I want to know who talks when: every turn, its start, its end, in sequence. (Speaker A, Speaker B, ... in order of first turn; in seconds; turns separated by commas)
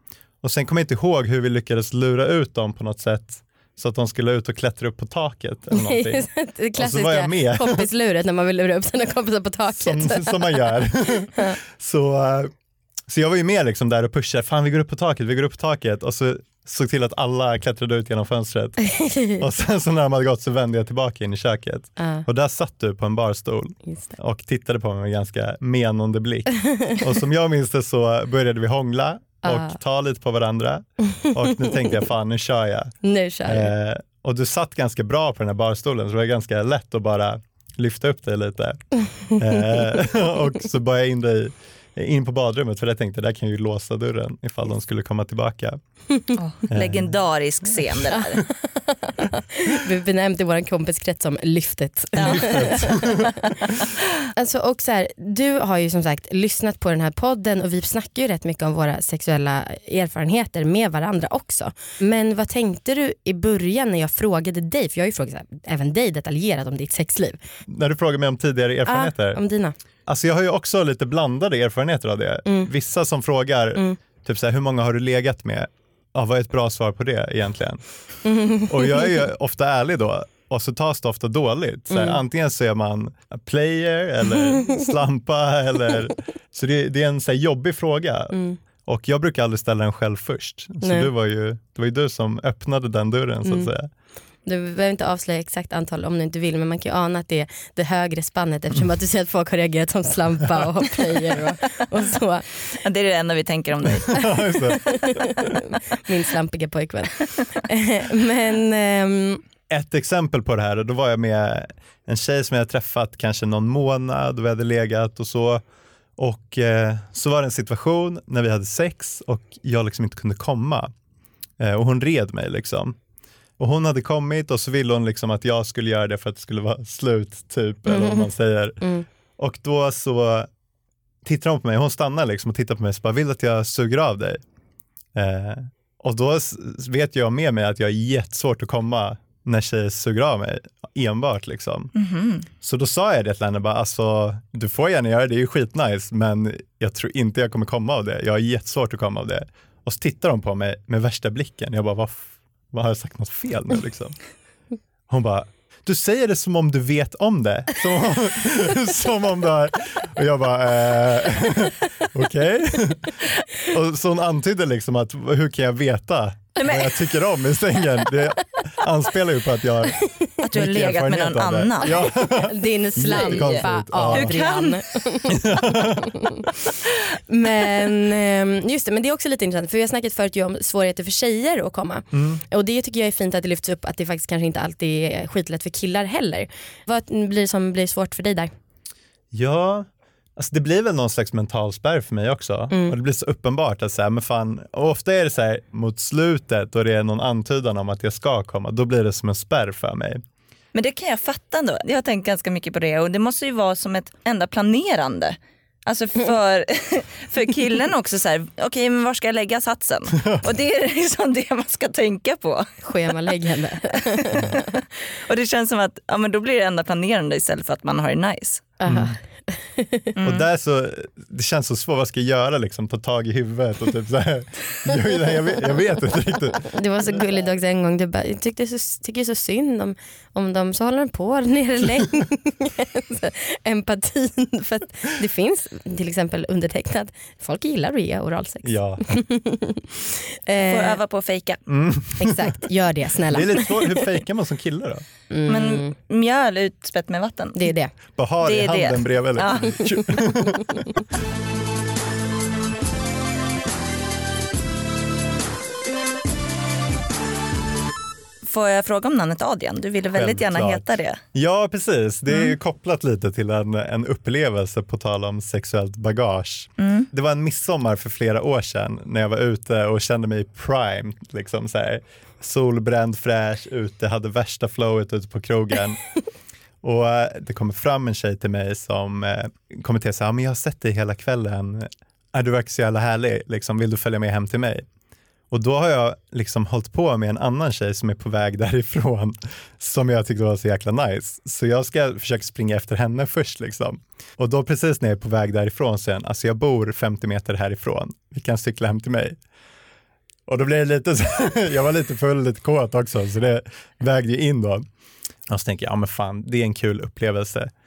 Speaker A: 0.4-7.9, Speaker B: 5.7-10.8, Speaker A: 9.8-12.5, Speaker A: 13.1-32.9, Speaker B: 18.8-19.4, Speaker B: 22.0-22.3, Speaker B: 23.9-24.1, Speaker B: 29.4-29.8, Speaker B: 31.6-31.9, Speaker B: 33.0-33.7, Speaker A: 33.5-45.8, Speaker C: 46.4-48.5, Speaker A: 46.7-47.1, Speaker B: 48.1-53.1, Speaker C: 52.2-53.5, Speaker A: 52.2-53.3, Speaker B: 54.4-67.4, Speaker A: 67.7-69.4, Speaker B: 68.9-69.8, Speaker A: 70.1-77.8, Speaker B: 72.5-72.7, Speaker B: 78.2-79.1, Speaker A: 78.7-93.9, Speaker B: 81.9-82.2, Speaker B: 88.3-88.6, Speaker B: 90.8-91.1, Speaker B: 93.4-93.7, Speaker B: 94.4-102.7, Speaker C: 102.8-104.2, Speaker A: 104.1-105.5, Speaker B: 104.2-109.4, Speaker A: 109.7-115.6, Speaker A: 116.2-120.9, Speaker A: 121.6-123.0, Speaker A: 123.6-128.8, Speaker B: 127.9-128.3, Speaker B: 128.8-129.1, Speaker A: 129.4-130.5, Speaker A: 131.2-134.4, Speaker A: 135.2-141.9, Speaker C: 142.0-142.5, Speaker A: 142.6-154.2, Speaker A: 155.1-174.4, Speaker C: 166.6-167.1, Speaker C: 170.4-172.0, Speaker B: 172.1-176.5, Speaker C: 173.1-174.8, Speaker A: 175.3-176.1, Speaker B: 177.3-188.5, Speaker A: 182.1-182.4, Speaker A: 189.3-200.2, Speaker B: 192.7-193.0, Speaker C: 200.7-212.7, Speaker B: 212.8-214.6, Speaker C: 214.2-218.6, Speaker B: 218.8-220.1, Speaker A: 218.9-219.2, Speaker C: 220.2-220.5, Speaker A: 220.2-226.7, Speaker B: 226.7-241.0, Speaker A: 238.6-239.0, Speaker C: 240.7-241.6, Speaker A: 241.7-242.6, Speaker B: 242.2-244.2, Speaker A: 243.3-245.1, Speaker B: 245.3-245.9, Speaker C: 245.5-247.7, Speaker B: 247.6-247.9, Speaker A: 248.2-250.9, Speaker C: 248.4-249.9, Speaker C: 258.5-261.2, Speaker A: 260.1-276.1, Speaker C: 262.3-262.6, Speaker C: 266.8-267.1, Speaker A: 276.8-284.9, Speaker A: 285.5-299.4, Speaker A: 300.5-304.9, Speaker A: 305.5-307.7